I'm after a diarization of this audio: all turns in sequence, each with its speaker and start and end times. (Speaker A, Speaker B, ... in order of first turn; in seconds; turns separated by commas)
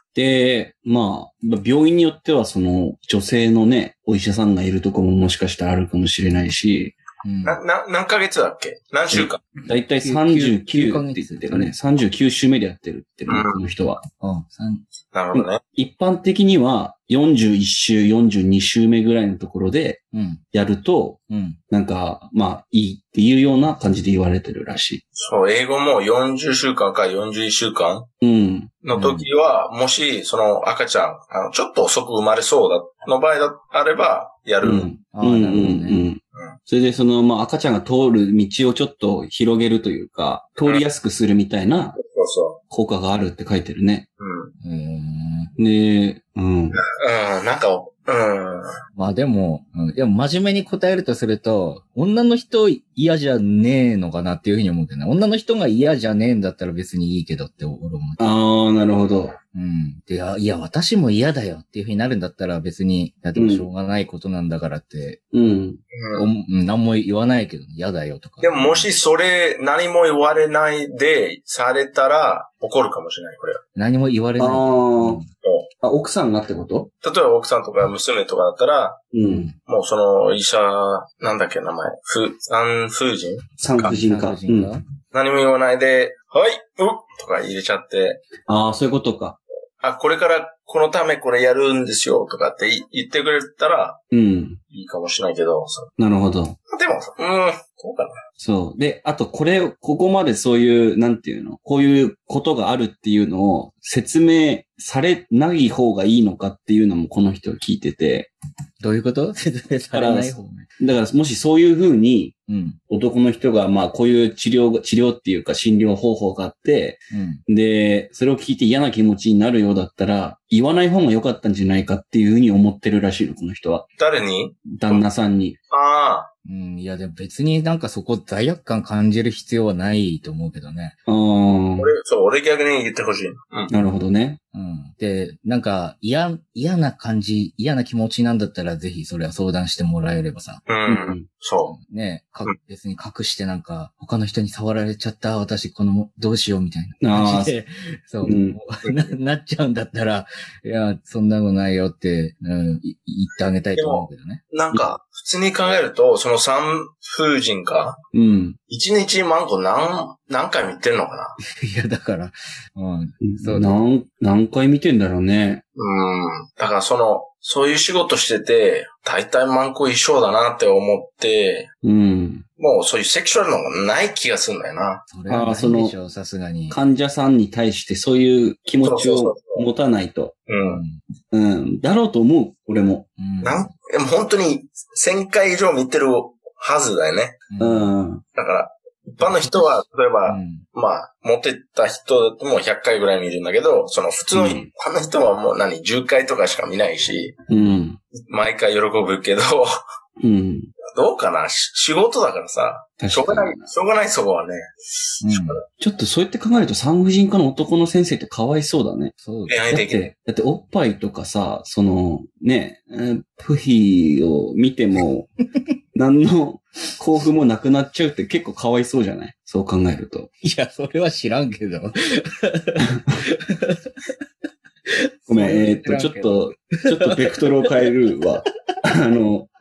Speaker A: 0.1-7.0, Speaker B: 7.2-7.6, Speaker C: 7.5-9.4, Speaker A: 9.1-14.0, Speaker B: 9.6-11.7, Speaker C: 13.3-13.6, Speaker B: 14.2-14.8, Speaker C: 15.1-15.6, Speaker A: 15.3-20.0, Speaker B: 20.1-20.4, Speaker A: 20.5-25.0, Speaker B: 21.3-21.6, Speaker C: 25.2-28.1, Speaker A: 28.2-28.7, Speaker C: 28.8-34.9, Speaker B: 28.9-29.3, Speaker A: 34.6-42.0, Speaker B: 35.1-36.0, Speaker C: 42.0-42.6, Speaker A: 42.7-44.1, Speaker C: 44.2-44.5, Speaker B: 44.6-45.5, Speaker A: 45.6-46.8, Speaker C: 46.9-48.8, Speaker B: 49.0-58.3, Speaker A: 58.2-59.4, Speaker B: 59.5-65.2, Speaker A: 63.4-63.7, Speaker A: 65.3-65.8, Speaker C: 65.9-66.3, Speaker B: 66.2-68.9, Speaker C: 68.4-73.6, Speaker B: 73.8-75.3, Speaker A: 74.4-75.2, Speaker C: 75.4-75.7, Speaker A: 75.8-76.9, Speaker C: 77.0-79.0, Speaker A: 79.1-79.5, Speaker B: 79.2-79.5, Speaker C: 79.7-83.9, Speaker A: 83.6-84.7, Speaker B: 83.8-84.8, Speaker C: 85.1-88.2, Speaker A: 88.5-89.4, Speaker C: 89.8-94.0, Speaker A: 94.1-94.6, Speaker C: 94.7-95.9, Speaker A: 96.0-96.6, Speaker C: 96.7-98.2, Speaker A: 98.4-108.3, Speaker B: 108.8-110.7, Speaker A: 109.9-112.3, Speaker B: 112.5-112.8, Speaker A: 112.9-123.9, Speaker B: 117.1-117.4, Speaker C: 124.0-125.0, Speaker A: 124.7-125.6, Speaker C: 125.7-126.3, Speaker B: 126.5-131.0, Speaker A: 131.1-131.9, Speaker C: 131.8-133.7, Speaker A: 133.7-134.4, Speaker B: 134.5-140.6, Speaker C: 140.7-141.8, Speaker A: 140.9-141.2, Speaker B: 141.7-154.4, Speaker A: 147.0-147.6, Speaker A: 148.2-148.6, Speaker C: 153.8-158.0, Speaker A: 158.1-158.6, Speaker C: 158.7-161.4, Speaker B: 161.4-163.8, Speaker A: 163.2-165.6, Speaker C: 165.8-171.7, Speaker A: 171.8-172.4, Speaker C: 172.6-175.0, Speaker B: 175.1-176.8, Speaker A: 175.3-176.0, Speaker A: 176.7-180.4, Speaker C: 178.8-179.7, Speaker C: 180.5-180.8, Speaker B: 180.7-181.0, Speaker A: 181.3-183.1, Speaker B: 183.2-183.7, Speaker C: 183.4-187.4, Speaker B: 187.5-187.9, Speaker A: 187.6-188.2, Speaker C: 188.3-197.4, Speaker B: 190.3-190.7, Speaker A: 194.3-194.7, Speaker A: 197.5-198.0, Speaker C: 198.1-199.8, Speaker A: 200.2-200.7, Speaker C: 200.9-204.7, Speaker A: 203.0-203.7, Speaker B: 205.2-205.6, Speaker C: 205.3-205.6, Speaker A: 205.8-209.1, Speaker B: 209.2-209.6, Speaker C: 209.5-210.1, Speaker A: 209.7-215.3, Speaker A: 215.9-220.3, Speaker B: 220.4-223.8, Speaker B: 224.9-227.3, Speaker A: 225.3-229.5